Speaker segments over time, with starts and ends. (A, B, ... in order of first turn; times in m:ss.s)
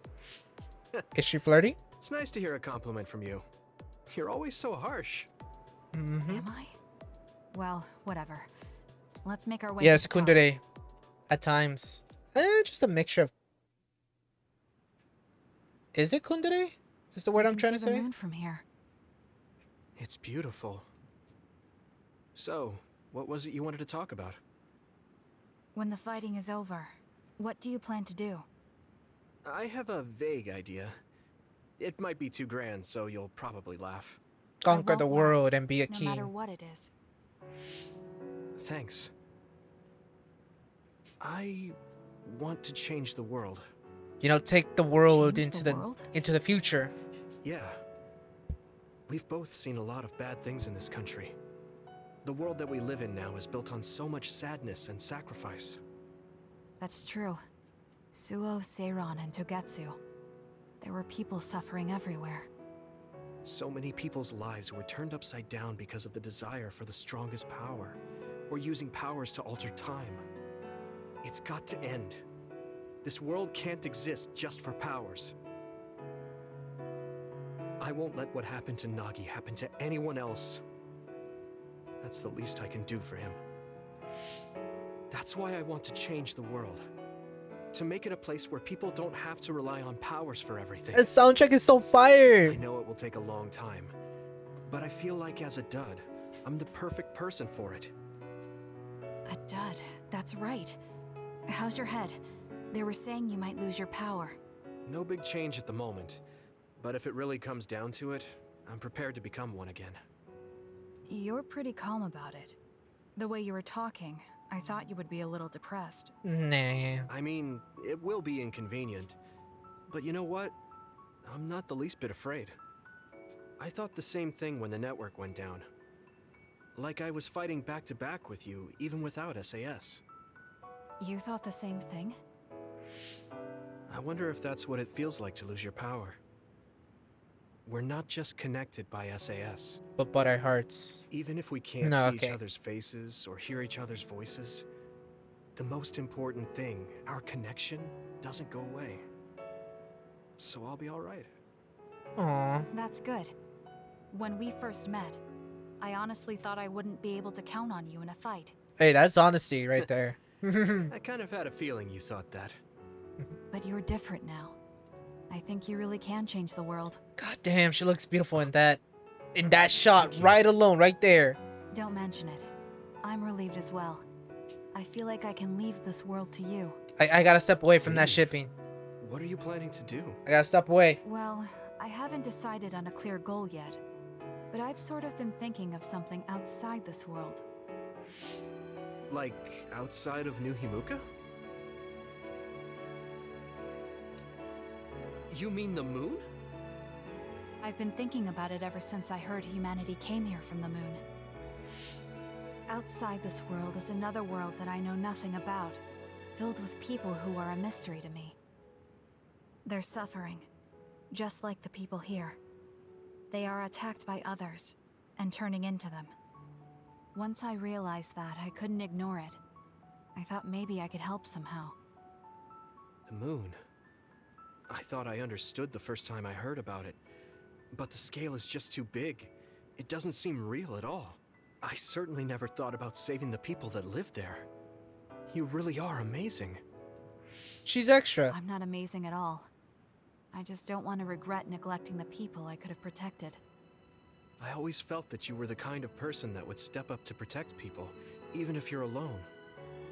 0:01.2-0:01.8 A
0:02.0-0:03.4 B
0:04.1-0:05.3 B
0:05.9-0:06.5 A
0:06.3-0:06.8 C
0:07.5-0:08.5 C
0:09.2-0:10.4 C
0:09.8-0:10.6 A
0:11.3-0:13.3 A
0:16.0-0:18.1 A
0:17.4-0:18.6 C
0:20.0-0:20.9 B
0:22.4-0:24.4 B
0:25.8-0:28.5 C
0:29.4-0:31.0 B
0:31.8-0:34.2 B
0:34.6-0:36.3 A
0:34.7-0:36.9 C
0:38.6-0:39.1 B
0:41.2-0:43.6 B
0:44.2-0:46.9 A
0:45.1-0:46.1 C
0:47.4-0:47.8 B
0:49.1-0:51.4 B
0:52.2-0:55.8 B
0:56.8-0:57.4 C
0:58.1-1:00.0 C
1:00.8-1:02.5 C
1:03.4-1:08.0 B
1:08.5-1:10.2 B
1:11.2-1:12.2 B
1:13.0-1:15.4 B
1:17.8-1:20.6 B
1:22.0-1:23.4 B
1:25.1-1:26.8 B
1:27.7-1:31.0 B
1:31.0-1:32.6 A
1:32.4-1:33.9 B
1:34.7-1:37.9 B
1:39.3-1:40.8 C
1:41.5-1:42.2 C
1:42.7-1:44.4 C
1:44.9-1:46.2 B
1:46.8-1:50.0 B
1:51.1-1:52.6 C
1:53.2-1:56.1 C
1:56.2-1:57.1 A
1:57.1-1:59.2 B
1:59.9-2:00.6 B
2:01.2-2:02.6 B
2:03.6-2:05.7 B
2:06.8-2:10.0 B
2:11.0-2:12.2 C
2:13.9-2:16.2 B
2:17.7-2:19.8 B
2:20.0-2:21.0 A
2:21.1-2:24.7 B
2:21.8-2:22.4 A
2:25.6-2:29.0 B
2:30.4-2:31.3 B
2:32.2-2:32.7 A
2:32.7-2:33.3 C
2:34.1-2:35.2 C
2:35.8-2:38.6 C
2:38.8-2:40.9 A
2:40.9-2:42.6 B
2:43.5-2:44.6 C
2:45.3-2:47.0 C
2:47.2-2:48.8 A
2:49.4-2:51.4 A
2:49.9-2:50.4 B
2:51.7-2:52.5 C
2:53.0-2:54.0 C
2:54.7-2:56.8 C
2:57.0-2:58.5 A
2:57.8-2:58.3 B
2:59.0-3:00.2 B
3:00.3-3:01.0 A
3:01.0-3:03.8 C
3:04.5-3:07.4 C
3:09.1-3:11.0 B
3:15.3-3:16.2 B
3:17.6-3:21.0 C
3:22.7-3:25.8 C
3:26.3-3:28.4 C
3:29.6-3:30.5 C
3:31.1-3:32.4 C
3:33.3-3:36.2 C
3:37.2-3:39.4 C
3:40.2-3:41.8 C
3:43.1-3:43.6 B
3:44.7-3:47.0 B
3:47.7-3:54.5 B
3:55.3-3:56.6 B
3:57.7-3:58.4 A
3:58.3-3:59.5 C
4:00.3-4:03.4 C
4:04.4-4:09.3 B